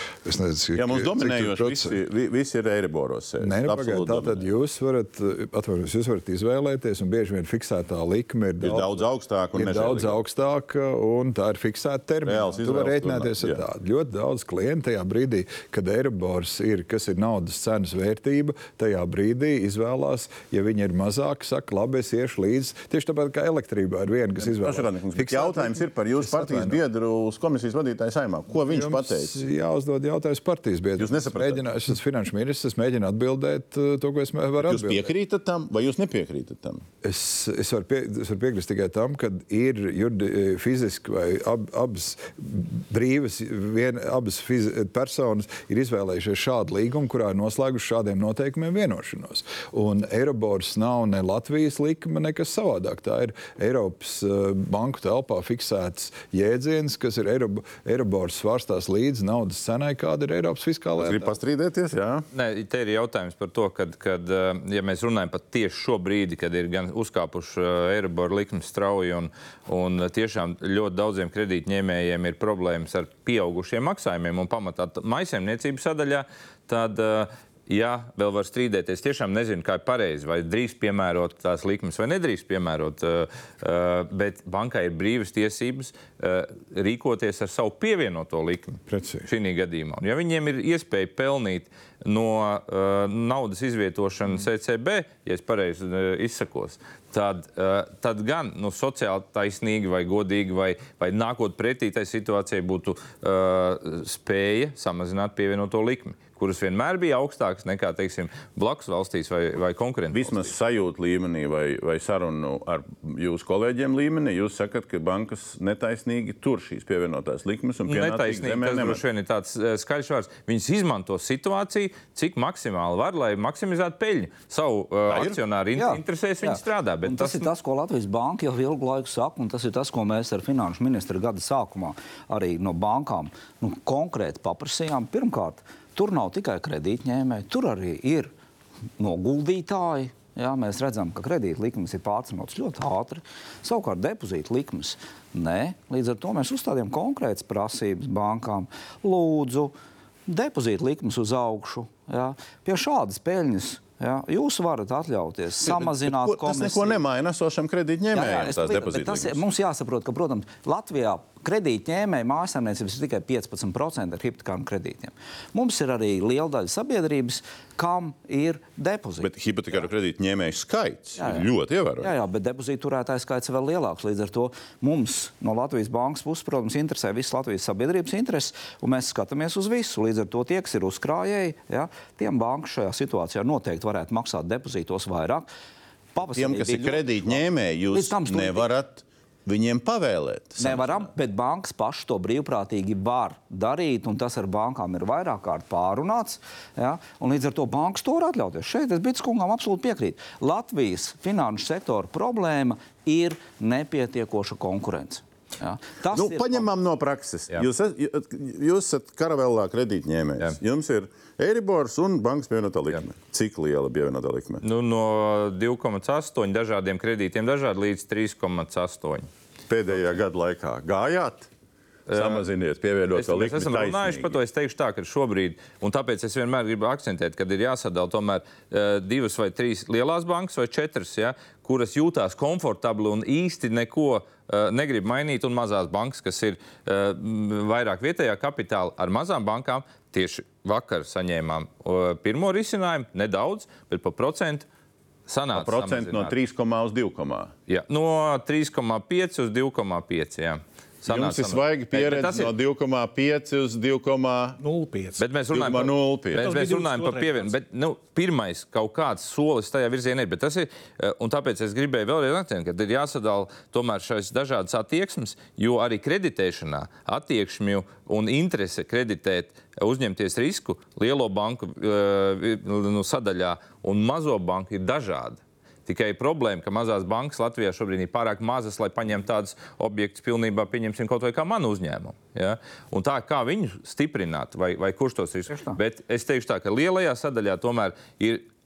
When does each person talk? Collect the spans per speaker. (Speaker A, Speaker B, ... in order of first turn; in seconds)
Speaker A: 0.2-2.0, 3.4-26.8, 28.5-35.0, 37.0-61.3, 88.9-89.3
Speaker B: 0.8-4.5, 8.6-10.2, 12.2-13.6, 24.5-29.4, 31.0-31.6, 34.6-36.9, 61.0-62.3, 110.1-119.0, 125.1-125.4, 155.6-159.4, 169.2-172.1, 186.3-191.1, 206.1-214.6, 219.7-221.5, 222.1-224.3, 245.5-247.5, 251.1-254.6, 255.5-256.5
Speaker C: 62.3-110.5, 117.9-127.5, 214.6-219.3, 222.1-222.4, 223.1-244.7, 245.3-246.4, 247.7-252.5, 255.2-288.4
Speaker D: 125.8-138.3, 139.0-149.8, 150.3-157.0, 158.1-169.3, 171.2-185.5, 186.1-187.4, 187.9-188.7, 190.6-206.7, 285.5-285.8
Speaker E: 254.6-255.3, 256.4-257.6